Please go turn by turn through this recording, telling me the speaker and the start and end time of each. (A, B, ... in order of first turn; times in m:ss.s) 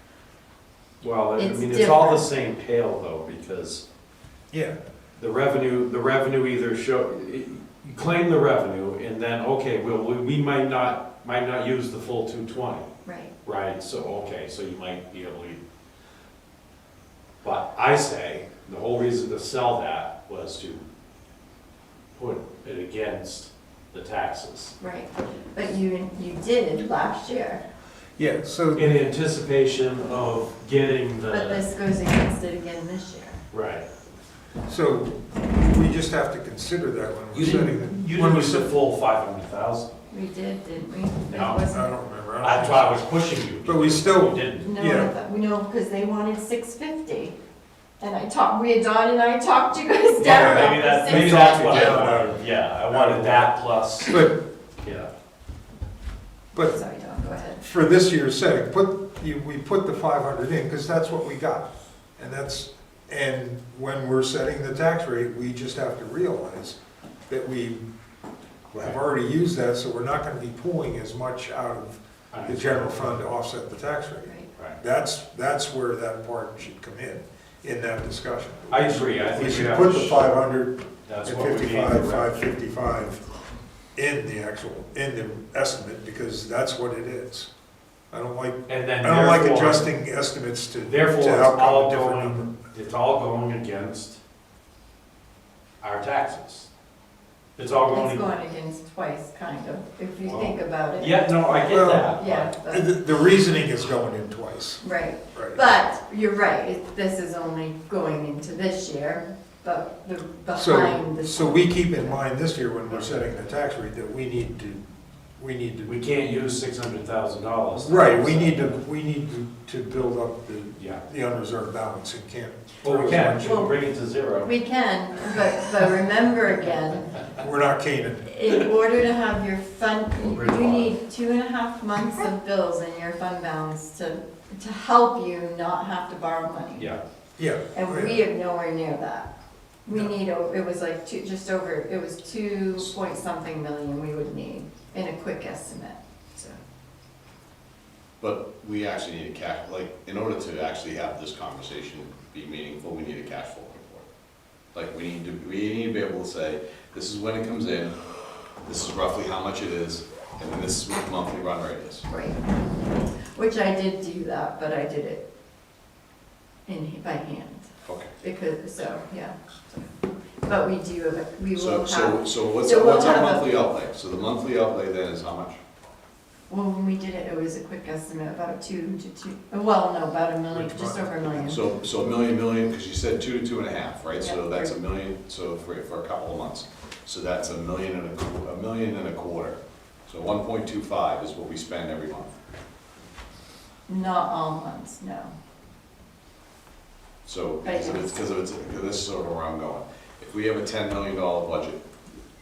0:01.0-0:03.8 A
0:01.4-0:02.2 B
0:04.5-0:04.8 C
0:05.2-0:12.9 A
0:13.0-0:13.3 B
0:13.4-0:15.6 A
0:17.4-0:20.8 A
0:22.1-0:24.7 A
0:24.8-0:27.6 B
0:28.2-0:29.0 C
0:28.7-0:31.6 A
0:31.3-0:33.4 B
0:33.5-0:33.9 A
0:34.6-0:38.7 C
0:37.3-0:39.9 A
0:40.1-0:41.9 B
0:41.3-0:41.6 A
0:41.7-0:43.0 C
0:42.4-0:44.7 A
0:43.6-0:45.1 C
0:44.6-0:47.4 B
0:48.0-0:52.2 B
0:50.2-0:54.2 A
0:50.2-0:53.5 C
0:54.0-0:54.4 C
0:54.8-0:55.1 A
0:56.7-0:57.6 B
0:57.6-1:06.8 C
1:07.3-1:07.8 C
1:08.7-1:23.2 C
1:12.3-1:13.2 A
1:18.7-1:20.3 A
1:21.0-1:22.4 A
1:23.9-1:27.5 C
1:28.1-1:32.5 C
1:28.7-1:29.9 A
1:30.8-1:34.2 A
1:35.8-1:36.7 A
1:37.6-1:38.3 A
1:37.9-1:41.3 B
1:40.2-1:42.5 A
1:41.7-1:42.2 C
1:42.1-1:42.9 B
1:42.7-1:44.8 C
1:44.8-1:52.1 B
1:45.3-1:45.6 C
1:50.5-1:54.8 C
1:55.4-1:56.0 C
1:55.8-1:58.8 A
1:57.8-2:03.6 C
2:00.8-2:01.0 A
2:02.8-2:04.5 A
2:03.4-2:03.7 B
2:04.4-2:07.1 B
2:07.4-2:08.3 C
2:08.3-2:16.9 B
2:10.1-2:11.0 A
2:17.4-2:18.2 C
2:17.7-2:19.3 B
2:19.8-2:26.5 B
2:28.2-2:34.0 D
2:34.7-2:38.0 D
2:38.6-2:42.0 D
2:42.1-2:42.4 B
2:43.1-2:45.2 B
2:46.7-2:47.7 B
2:47.8-2:48.1 D
2:48.2-2:49.9 B
2:50.4-2:53.6 B
2:51.5-2:55.6 D
2:56.5-3:01.6 B
3:00.5-3:01.6 C
3:01.4-3:12.3 D
3:04.2-3:04.8 B
3:13.9-3:15.3 B
3:17.2-3:21.8 D
3:17.6-3:18.2 B